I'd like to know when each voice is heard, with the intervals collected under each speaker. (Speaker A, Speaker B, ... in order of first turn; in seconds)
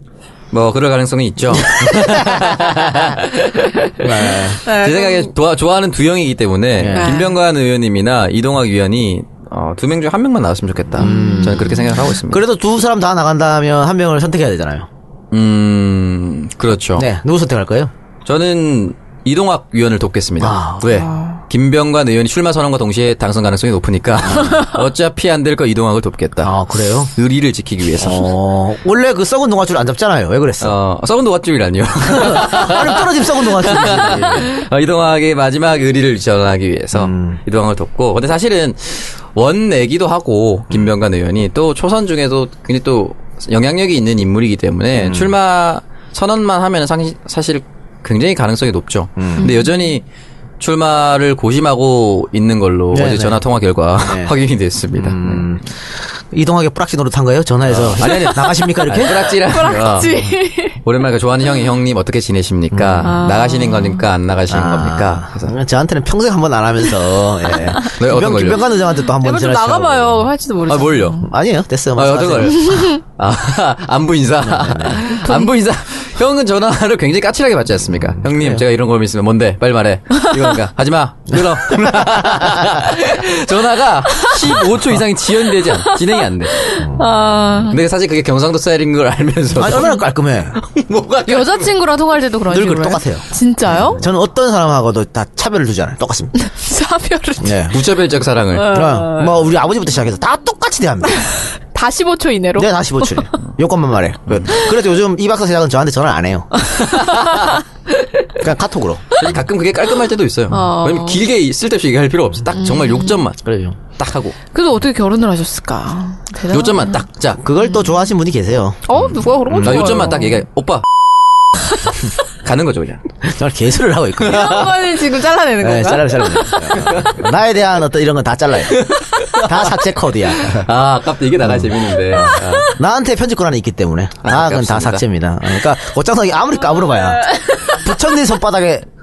Speaker A: 0.5-12.4, 15.3-17.1, 18.2-26.5, 27.1-28.3, 30.6-50.0, 50.6-55.5, 57.7-65.5, 67.9-68.6, 70.7-71.2, 72.0-86.6, 87.7-90.0, 90.6-91.7, 97.7-98.8, 104.3-104.6, 106.8-107.5, 109.2-113.4, 113.9-114.3, 116.5-117.4, 119.6-120.8, 122.4-123.0, 126.8-127.2, 128.7-129.8, 130.4-132.7, 134.2-135.0
Speaker B: 1.5-3.0, 4.0-4.6, 6.8-7.2, 11.0-11.7, 12.3-14.9, 16.9-17.9, 20.4-21.1, 24.2-24.6, 26.4-27.1, 28.0-30.8, 32.1-34.5, 36.9-37.4, 44.9-45.3, 49.2-49.5, 52.9-53.4, 54.0-54.3, 54.9-59.3, 62.7-63.1, 64.5-70.2, 71.2-72.8, 74.4-75.1, 78.2-78.6, 81.8-82.7, 89.5-90.6, 92.5-96.3, 97.4-97.8, 98.7-101.5, 102.6-106.5, 108.4-109.3, 113.4-113.8, 117.4-118.9, 119.5-120.2, 123.2-124.8, 125.6-128.9, 129.4-130.7, 131.5-138.8
Speaker C: 4.6-5.3, 6.9-7.3, 11.0-11.8, 21.1-21.4, 49.4-49.8, 59.4-60.8, 63.0-64.0, 69.1-71.2, 72.7-73.0, 75.0-75.5, 86.5-87.8, 89.6-90.0, 91.3-94.0, 96.3-97.7, 98.5-99.4, 101.2-103.3, 106.7-107.5, 110.5-111.2, 112.6-113.2, 114.5-117.0, 118.9-120.4, 124.2-126.7, 137.2-137.9